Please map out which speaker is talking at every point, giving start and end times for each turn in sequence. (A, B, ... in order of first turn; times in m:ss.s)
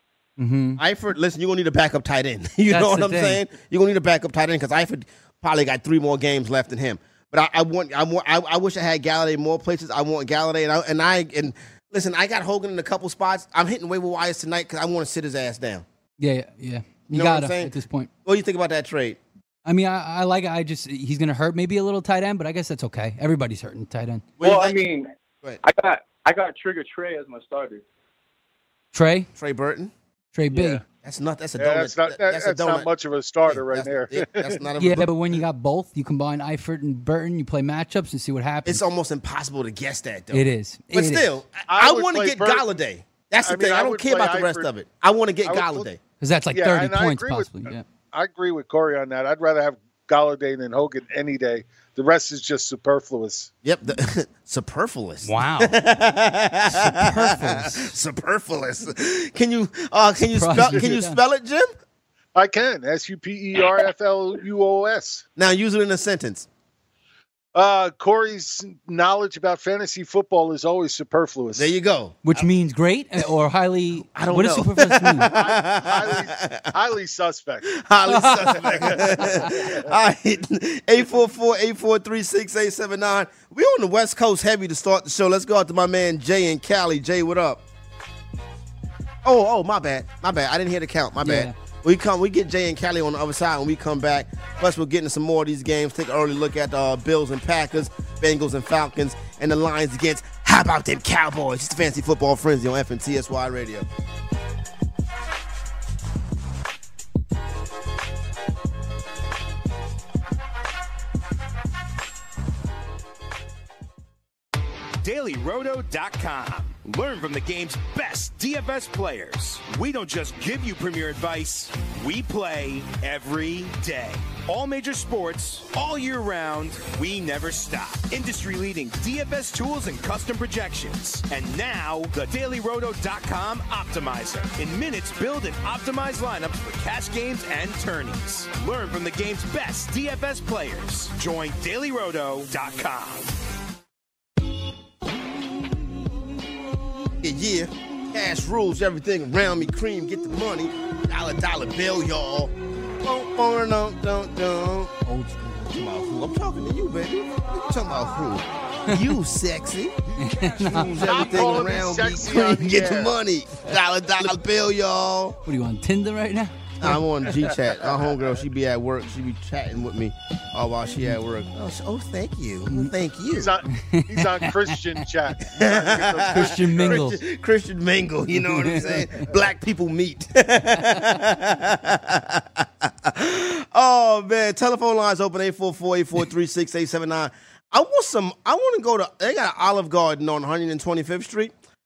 0:00.4-0:00.8 A
0:00.8-0:15.8 B
0:02.7-0:03.4 A
0:16.2-0:18.1 A
0:17.1-0:19.2 B
0:19.6-0:24.2 A
0:24.4-0:24.8 B
0:24.4-0:25.1 C
0:25.6-0:27.8 C
0:28.9-0:29.3 A
0:29.4-0:29.9 B
0:30.3-0:30.8 A
0:30.5-0:30.8 C
0:30.9-0:32.9 B
0:31.6-0:34.6 D
0:33.5-0:35.1 B
0:34.8-0:38.8 A
0:38.6-0:46.0 B
0:40.3-0:41.3 A
0:41.7-0:42.7 D
0:43.4-0:44.7 D
0:45.4-0:45.9 D
0:46.2-0:47.8 A
0:46.5-0:53.5 D
0:53.6-1:01.7 B
0:55.2-0:55.8 A
0:56.7-0:57.9 A
1:00.3-1:01.2 A
1:02.3-1:05.2 D
1:05.4-1:06.5 B
1:07.5-1:11.7 D
1:11.6-1:12.4 B
1:12.2-1:15.3 A
1:14.1-1:16.7 B
1:15.3-1:17.7 D
1:17.6-1:27.6 B
1:18.1-1:19.5 A
1:18.6-1:19.9 D
1:29.2-1:43.8 B
1:31.2-1:31.5 A
1:55.0-2:23.3 E
2:27.2-2:34.9 B
2:35.0-2:35.7 A
2:35.7-2:45.4 B
2:40.2-2:41.0 A
2:41.0-2:43.1 D
2:45.4-2:47.0 A
2:46.8-2:53.5 B
2:53.3-2:57.0 D
2:53.7-2:54.8 A
2:55.5-3:11.5 B
2:56.3-2:57.2 A
2:58.3-2:59.0 A